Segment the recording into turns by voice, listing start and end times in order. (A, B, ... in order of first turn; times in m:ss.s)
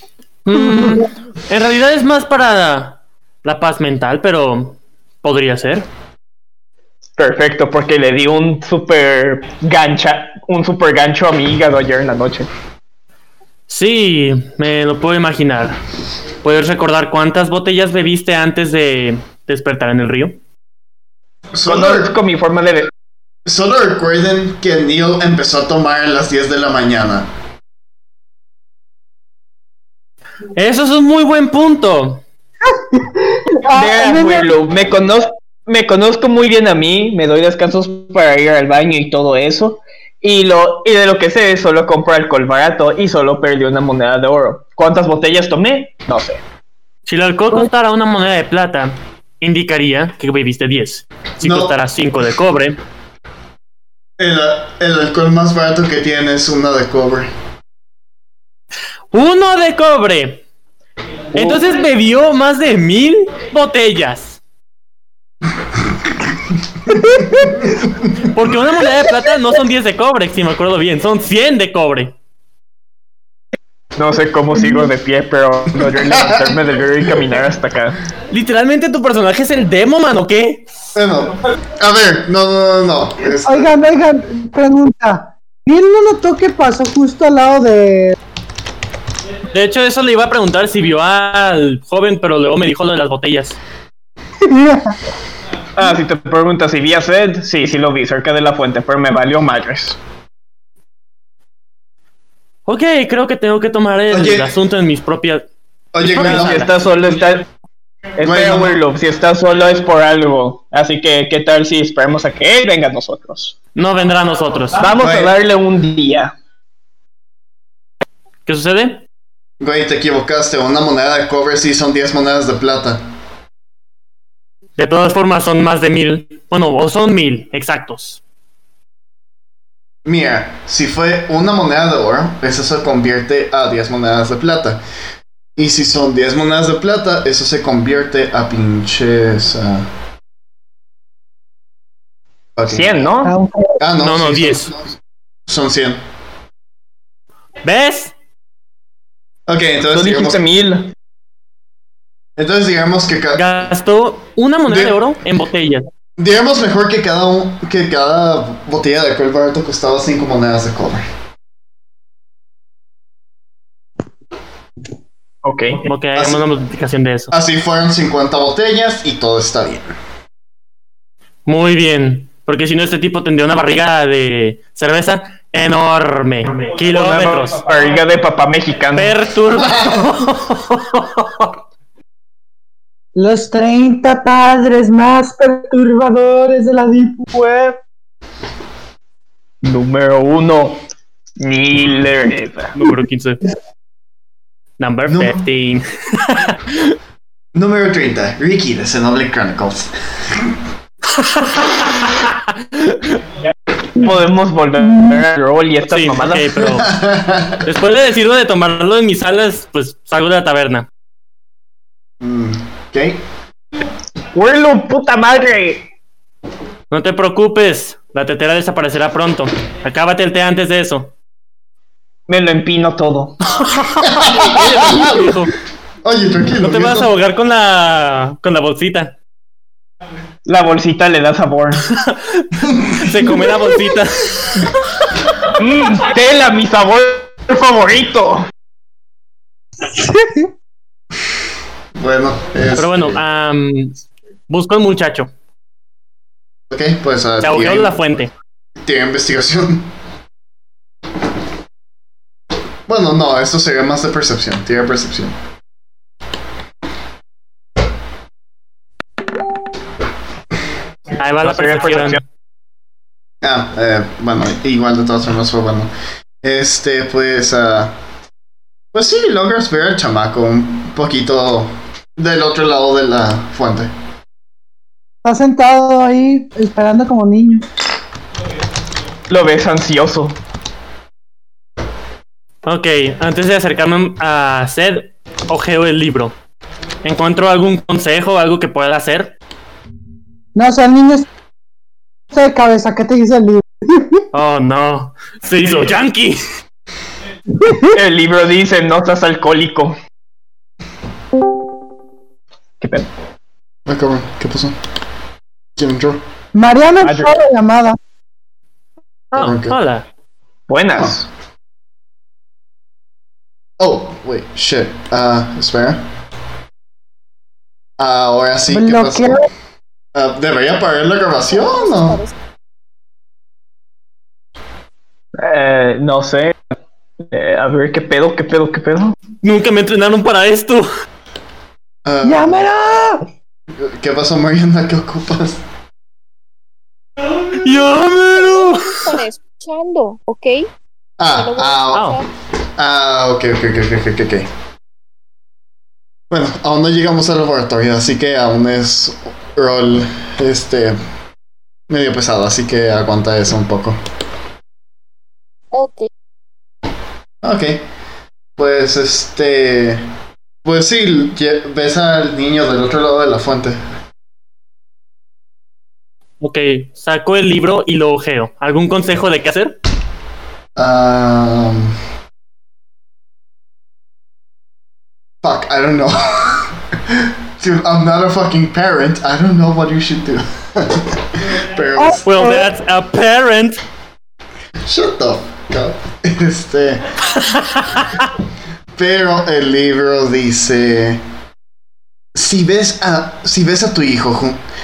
0:00.4-0:05.9 A
0:07.2-0:12.5 B
0:13.7-0:15.8 A
0:16.4-0:20.4 A
0:21.5-0:22.1 C
0:21.7-0:22.9 B
0:23.4-0:27.3 C
0:30.6-0:32.2 A
0:32.9-0:34.5 D
0:33.7-0:46.4 B
0:47.0-0:52.8 A
0:51.4-0:51.7 C
0:54.2-0:57.3 C
0:59.1-1:00.4 A
1:01.3-1:04.4 A
1:01.4-1:01.6 B
1:06.9-1:07.6 D
1:07.2-1:08.1 C
1:08.3-1:12.1 A
1:14.0-1:18.0 B
1:16.1-1:16.6 C
1:18.3-1:20.6 A
1:20.9-1:23.7 C
1:23.4-1:28.2 D
1:29.5-1:33.6 A
1:34.4-1:35.0 D
1:35.8-1:40.0 B
1:42.6-1:45.4 A
1:44.1-1:44.5 C
1:45.9-1:46.7 C
1:46.0-1:46.7 A
1:46.1-1:47.4 B
1:48.2-1:53.6 B
1:48.2-1:48.8 C
1:53.8-1:54.8 A
1:54.8-1:56.3 B
1:55.0-1:55.3 C
1:58.4-1:59.0 A
1:59.6-2:03.0 C
2:04.8-2:08.2 A
2:10.0-2:14.8 C
2:15.6-2:19.9 C
2:22.6-2:23.1 C
2:22.7-2:23.3 B
2:23.2-2:23.8 D
2:23.8-2:24.8 C
2:24.0-2:24.7 A
2:25.5-2:26.0 C
2:27.6-2:28.1 A
2:29.5-2:30.4 C
2:29.9-2:30.9 B
2:32.4-2:33.6 C
2:33.3-2:35.9 A
2:34.7-2:35.0 C
2:36.2-2:41.0 C
2:45.4-2:45.8 B
2:45.8-2:47.3 A
2:46.1-2:46.4 C
2:47.3-2:49.9 C
2:51.4-2:57.6 A
2:56.8-2:59.1 B
2:58.9-3:01.5 A
2:59.6-3:00.1 C
3:03.1-3:07.8 D
3:09.6-3:10.8 B
3:11.4-3:12.8 B
3:12.8-3:13.4 A
3:14.8-3:16.9 A
3:15.1-3:15.4 C
3:17.5-3:20.5 C
3:21.2-3:21.6 A
3:23.9-3:26.7 B
3:25.8-3:26.9 A
3:26.7-3:27.6 C
3:27.6-3:30.9 A
3:32.2-3:33.2 C
3:34.3-3:35.9 B
3:36.9-3:41.1 A
3:42.3-3:43.4 B
3:43.5-3:45.5 A
3:44.0-3:45.4 C
3:46.0-3:47.1 C
3:46.6-3:49.1 A
3:50.4-3:51.9 B
3:52.6-3:53.0 C
3:53.0-3:54.7 A
3:55.5-3:58.5 B
3:59.9-4:00.4 D
4:02.0-4:03.2 C
4:02.8-4:04.0 A
4:04.5-4:05.3 A
4:06.7-4:07.9 C
4:07.4-4:08.3 A
4:08.8-4:09.9 C
4:12.9-4:15.3 C
4:21.2-4:22.2 A
4:21.4-4:22.2 B
4:23.4-4:25.9 C
4:26.4-4:27.9 C
4:28.9-4:33.9 C
4:35.2-4:37.6 D
4:39.3-4:40.4 B
4:42.6-4:46.3 A
4:47.0-4:49.3 A
4:50.5-4:51.3 D
4:52.3-4:54.2 D
4:54.3-4:56.4 A
4:57.6-4:58.0 D
4:57.9-5:00.0 B
5:02.8-5:03.1 B
5:03.9-5:04.8 C
5:05.8-5:06.2 C
5:06.5-5:08.0 D
5:07.0-5:07.3 B
5:09.3-5:09.8 C
5:09.3-5:10.0 A
5:10.7-5:11.3 B
5:13.8-5:16.0 C
5:18.0-5:19.4 C
5:18.7-5:19.4 D
5:20.1-5:22.2 C
5:21.5-5:22.3 E
5:25.4-5:26.5 B
5:27.2-5:29.1 B
5:29.4-5:30.9 A
5:32.0-5:32.6 C
5:32.2-5:33.2 D
5:33.7-5:35.6 C
5:37.6-5:39.2 A
5:38.3-5:40.7 E
5:41.2-5:42.1 C
5:41.2-5:42.2 E
5:41.9-5:42.2 A
5:42.8-5:44.5 C
5:46.3-5:51.0 C
5:51.9-5:54.0 C
5:55.7-5:56.1 E
5:57.4-5:57.8 C
5:58.6-6:00.0 C
6:00.6-6:03.8 C
6:06.4-6:09.7 A
6:10.8-6:12.0 C
6:15.4-6:22.2 C
6:22.0-6:22.7 D
6:22.2-6:23.8 A
6:24.8-6:27.0 C
6:29.0-6:31.2 C
6:32.3-6:34.6 C